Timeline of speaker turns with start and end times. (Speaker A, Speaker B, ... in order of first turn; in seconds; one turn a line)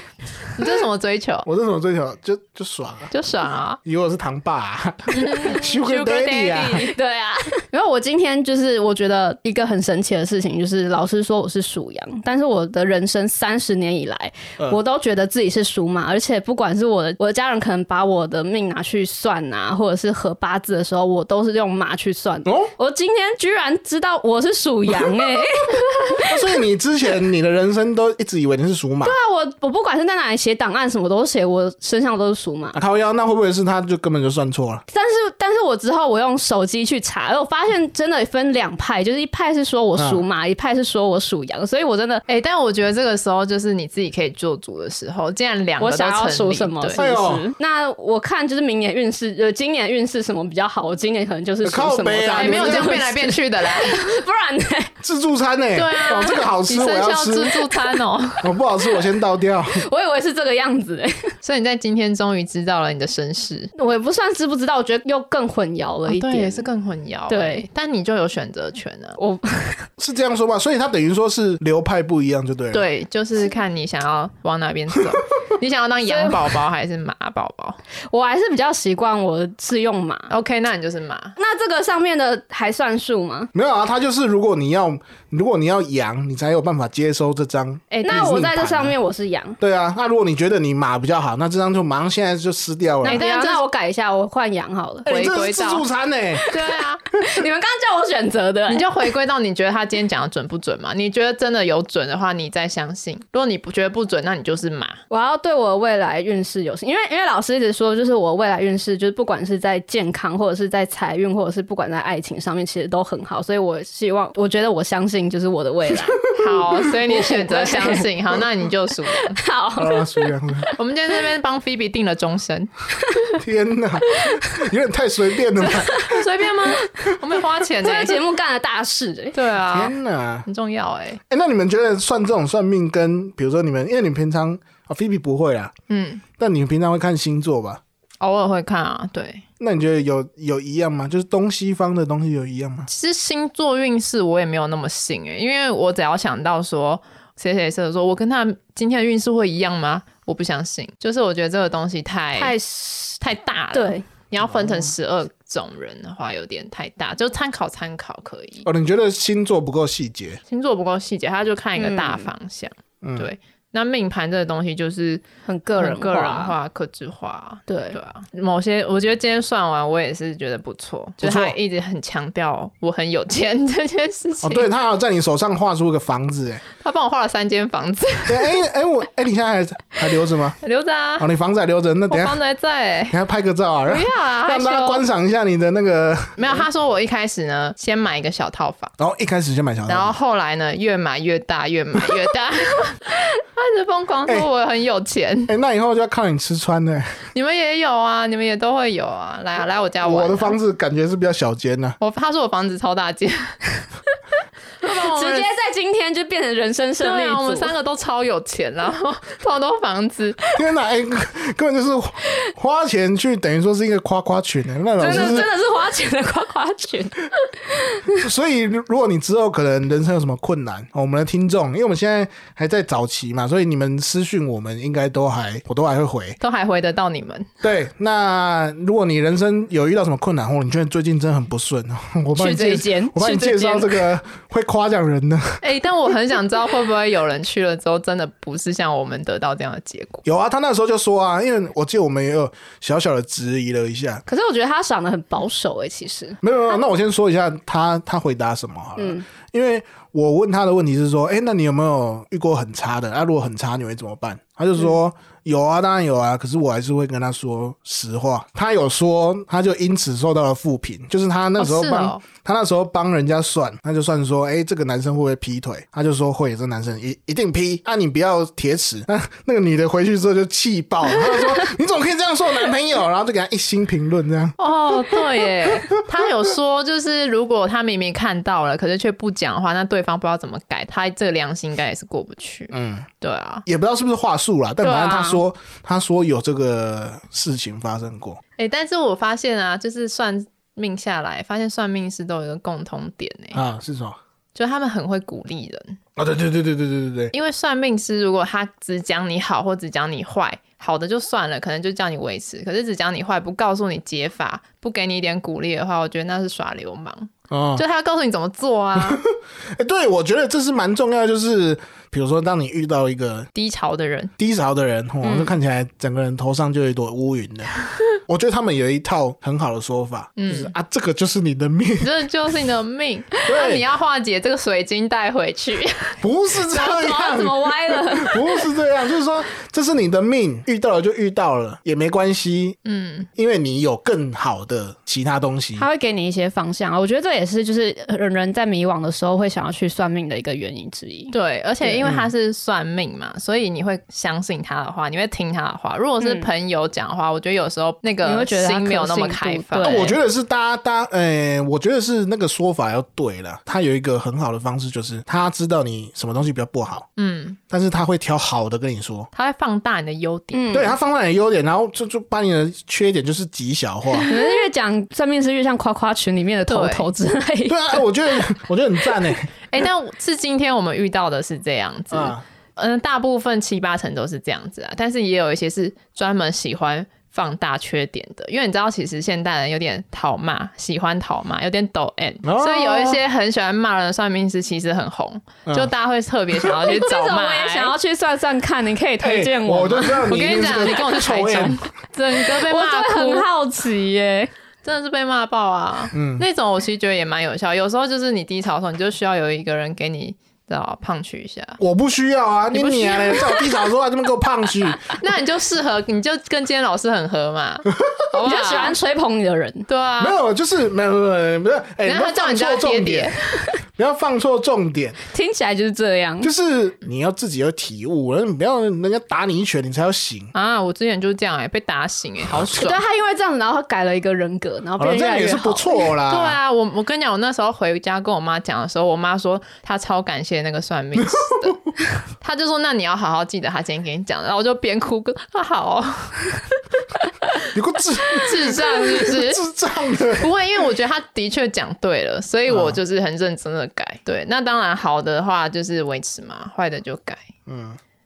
Speaker A: 0.5-1.5
Speaker B: 1.4-3.1
Speaker A: 3.1-3.8
Speaker B: 3.8-6.9
Speaker A: 5.1-7.0
Speaker C: 6.8-26.3
Speaker B: 22.4-22.7
Speaker B: 26.2-29.1
Speaker C: 29.0-32.8
Speaker B: 32.7-34.8
Speaker C: 34.9-42.2
Speaker B: 40.0-40.2
Speaker A: 42.3-47.0
Speaker C: 45.8-54.9
Speaker B: 46.9-47.5
Speaker B: 51.6-53.0
Speaker A: 52.3-54.2
Speaker B: 55.0-57.6
Speaker A: 55.7-58.5
Speaker B: 58.4-59.8
Speaker C: 59.7-61.3
Speaker A: 61.4-63.7
Speaker C: 63.8-66.7
Speaker A: 66.1-69.2
Speaker C: 67.3-67.7
Speaker C: 69.2-69.9
Speaker B: 70.0-72.8
Speaker A: 72.7-77.8
Speaker C: 76.0-76.4
Speaker C: 78.1-80.3
Speaker A: 80.3-81.3
Speaker C: 81.4-83.5
Speaker B: 83.5-89.0
Speaker C: 87.9-89.6
Speaker B: 89.6-93.2
Speaker C: 93.0-95.1
Speaker A: 93.0-93.6
Speaker B: 95.0-96.4
Speaker A: 95.1-95.8
Speaker C: 96.4-98.9
Speaker A: 96.5-97.0
Speaker A: 98.7-105.0
Speaker C: 105.1-116.2
Speaker A: 116.3-119.4
Speaker C: 117.1-118.0
Speaker C: 119.3-120.7
Speaker B: 119.8-120.7
Speaker A: 120.8-122.7
Speaker B: 123.4-126.0
Speaker C: 125.7-127.1
Speaker A: 125.8-128.2
Speaker C: 127.8-129.4
Speaker A: 129.3-129.9
Speaker B: 129.7-130.4
Speaker A: 130.4-131.2
Speaker B: 131.3-135.7
Speaker A: 135.9-136.2
Speaker B: 136.4-137.8
Speaker A: 138.2-139.4
Speaker B: 139.6-142.9
Speaker A: 142.9-152.5
Speaker C: 152.3-153.2
Speaker A: 153.2-158.7
Speaker C: 153.7-154.1
Speaker B: 154.4-154.9
Speaker B: 158.6-160.4
Speaker A: 160.5-165.2
Speaker C: 161.8-162.3
Speaker B: 163.0-163.3
Speaker C: 165.4-166.5
Speaker A: 165.8-174.7
Speaker C: 167.7-168.0
Speaker B: 171.2-171.6
Speaker B: 174.4-176.6
Speaker A: 176.8-178.6
Speaker B: 178.3-180.6
Speaker A: 180.6-181.3
Speaker B: 181.2-182.4
Speaker A: 182.1-183.2
Speaker B: 183.1-186.6
Speaker A: 183.9-185.0
Speaker A: 186.4-188.9
Speaker B: 189.0-190.1
Speaker A: 189.9-195.5
Speaker B: 195.5-197.2
Speaker A: 197.3-200.6
Speaker B: 200.0-201.9
Speaker A: 202.0-203.6
Speaker A: 204.8-205.5
Speaker C: 204.8-207.7
Speaker A: 207.0-210.4
Speaker B: 210.5-215.5
Speaker C: 215.0-218.2
Speaker B: 218.1-226.4
Speaker A: 226.4-227.5
Speaker B: 227.6-235.6
Speaker C: 232.3-234.0
Speaker A: 235.6-240.2
Speaker B: 240.2-244.2
Speaker C: 244.3-246.4
Speaker B: 246.4-276.0
Speaker C: 249.0-249.2
Speaker A: 261.6-262.2
Speaker A: 274.6-283.6
Speaker B: 282.7-283.1
Speaker B: 283.6-288.4
Speaker C: 284.8-285.4
Speaker A: 288.6-293.6
Speaker B: 293.5-294.2
Speaker A: 294.5-296.0
Speaker B: 296.1-297.3
Speaker A: 297.3-309.2
Speaker B: 307.5-307.8
Speaker B: 308.9-313.5
Speaker A: 313.5-314.3
Speaker B: 314.4-317.7
Speaker C: 315.2-315.5
Speaker B: 318.3-322.1
Speaker A: 320.4-320.7
Speaker A: 322.0-326.2
Speaker B: 323.4-323.9
Speaker B: 326.2-332.8
Speaker C: 326.7-328.6
Speaker A: 332.8-333.3
Speaker B: 333.4-335.9
Speaker C: 335.8-342.0
Speaker A: 341.3-350.1
Speaker B: 342.0-342.3
Speaker C: 346.2-346.5
Speaker C: 348.2-350.1
Speaker B: 349.8-357.1
Speaker A: 357.2-357.6
Speaker B: 357.7-359.3
Speaker A: 359.3-360.7
Speaker C: 360.5-360.9
Speaker B: 360.7-364.3
Speaker C: 364.3-368.0
Speaker A: 366.7-367.1
Speaker B: 367.7-369.5
Speaker A: 369.7-387.9
Speaker B: 372.1-372.4
Speaker B: 382.4-383.2
Speaker B: 385.6-385.9
Speaker B: 386.5-386.9
Speaker C: 387.0-390.5
Speaker B: 389.2-391.8
Speaker A: 390.3-393.5
Speaker C: 392.3-394.5
Speaker A: 394.8-401.8
Speaker B: 396.1-396.4
Speaker B: 401.8-405.1
Speaker A: 402.7-403.7
Speaker A: 405.1-409.0
Speaker C: 408.4-409.9
Speaker A: 409.9-410.4
Speaker B: 410.2-413.3
Speaker A: 412.0-413.7
Speaker B: 413.9-415.2
Speaker C: 415.3-416.5
Speaker B: 416.4-420.5
Speaker A: 420.5-423.0
Speaker C: 422.7-426.0
Speaker B: 425.0-426.6
Speaker A: 426.3-431.8
Speaker B: 431.2-431.6
Speaker A: 432.4-436.6
Speaker B: 437.7-440.5
Speaker A: 438.3-439.6
Speaker A: 440.4-447.4
Speaker B: 442.7-443.0
Speaker B: 447.6-448.0